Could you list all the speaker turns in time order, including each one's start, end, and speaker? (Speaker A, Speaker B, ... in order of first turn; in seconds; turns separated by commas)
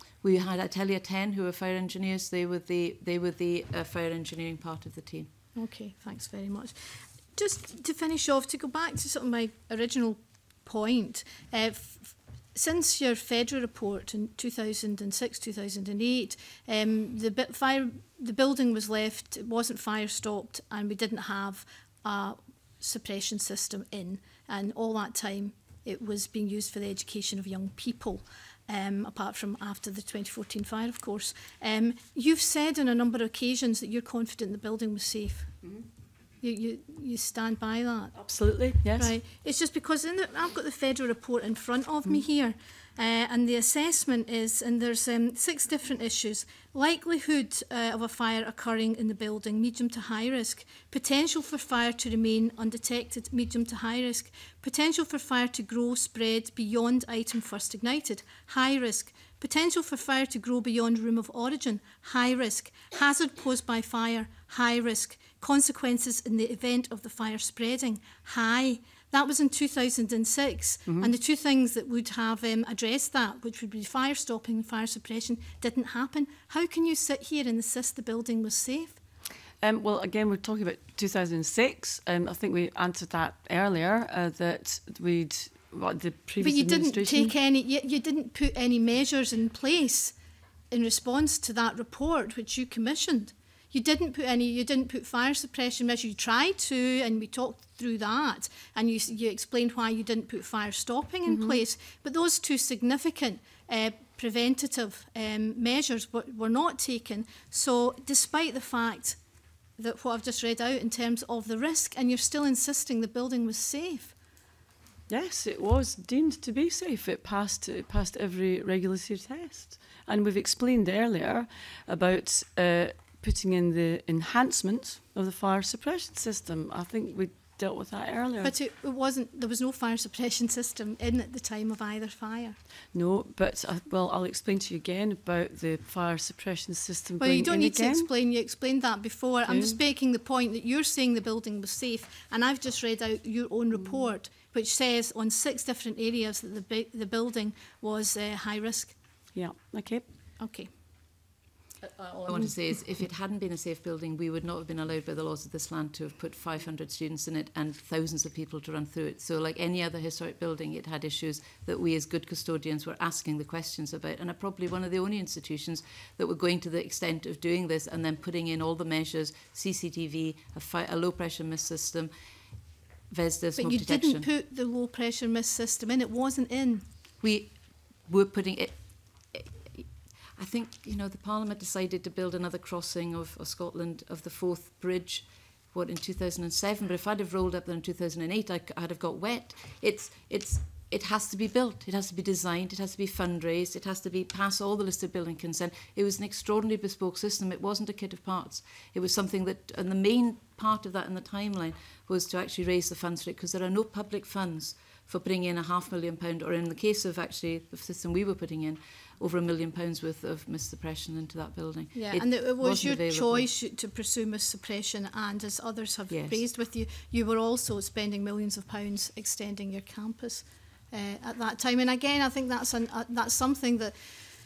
Speaker A: 0.2-5.3, Speaker B: 5.5-35.6, Speaker B: 36.4-79.0, Speaker C: 38.2-39.1, Speaker C: 70.8-71.1, Speaker C: 79.6-87.3, Speaker B: 86.4-90.2, Speaker B: 90.7-109.2, Speaker C: 101.3-101.6, Speaker B: 109.8-114.1, Speaker C: 115.1-128.5, Speaker B: 128.4-132.6, Speaker C: 132.9-138.1, Speaker B: 137.2-148.9, Speaker C: 139.5-139.8, Speaker C: 149.3-150.0, Speaker B: 150.4-150.7, Speaker A: 151.8-172.1, Speaker A: 173.1-174.3, Speaker B: 173.6-176.8, Speaker A: 177.2-213.5, Speaker B: 211.9-224.1, Speaker A: 216.1-216.4